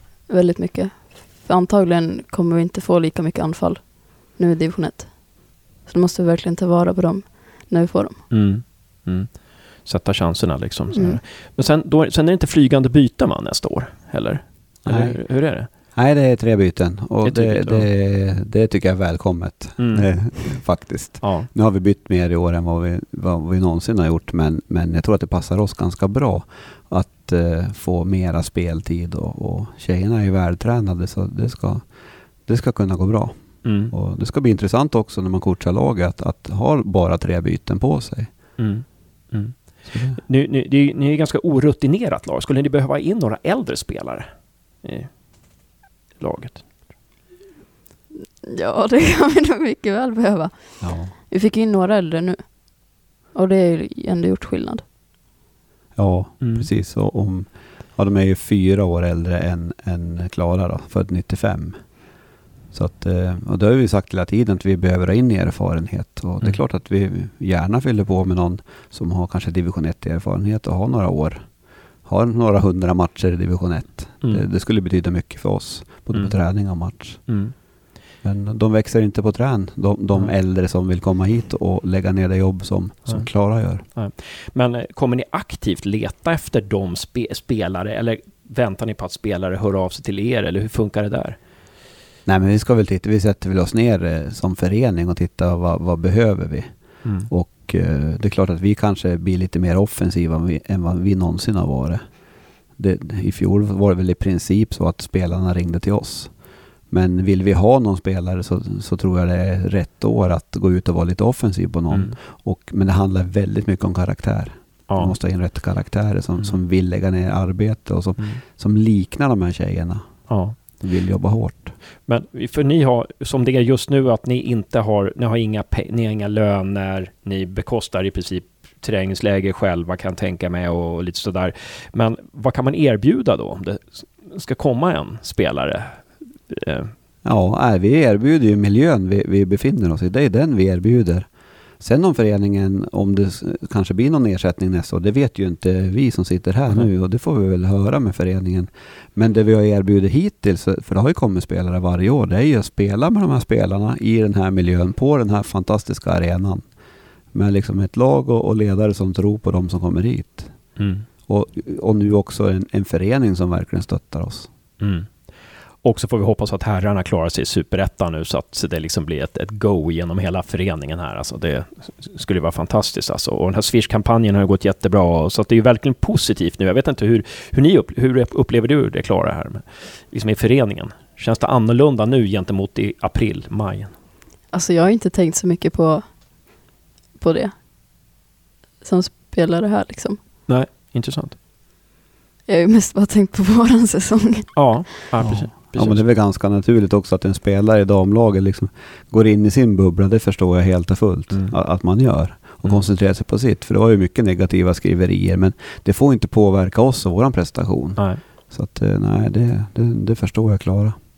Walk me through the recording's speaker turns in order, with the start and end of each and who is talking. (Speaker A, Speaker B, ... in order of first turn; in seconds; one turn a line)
Speaker A: 0.3-8.3
Speaker B: 8.3-15.7
Speaker A: 10.9-11.2
Speaker C: 14.8-38.3
Speaker B: 17.2-17.9
Speaker B: 19.8-20.6
Speaker B: 21.2-21.5
Speaker B: 33.6-33.9
Speaker B: 38.6-46.9
Speaker C: 39.9-40.2
Speaker A: 48.5-54.8
Speaker C: 50.8-51.1
Speaker C: 55.9-77.7
Speaker B: 56.4-56.7
Speaker B: 76.1-77.5
Speaker C: 78.2-83.8
Speaker B: 83.0-91.4
Speaker C: 92.2-121.8
Speaker B: 97.0-97.3
Speaker B: 111.9-112.2
Speaker B: 114.9-115.2
Speaker B: 116.3-116.6
Speaker B: 120.3-120.6
Speaker B: 122.0-136.9
Speaker C: 137.2-156.7
Speaker C: 157.3-164.5
Speaker B: 160.8-161.1
Speaker B: 164.8-183.9
Speaker A: 184.5-186.5
Speaker A: 187.2-187.6
Speaker A: 188.8-190.2
Speaker B: 190.5-191.4
Speaker A: 192.5-194.9
Speaker B: 194.5-196.0
Speaker C: 195.2-210.9
Speaker B: 201.3-201.6
Speaker B: 208.0-208.2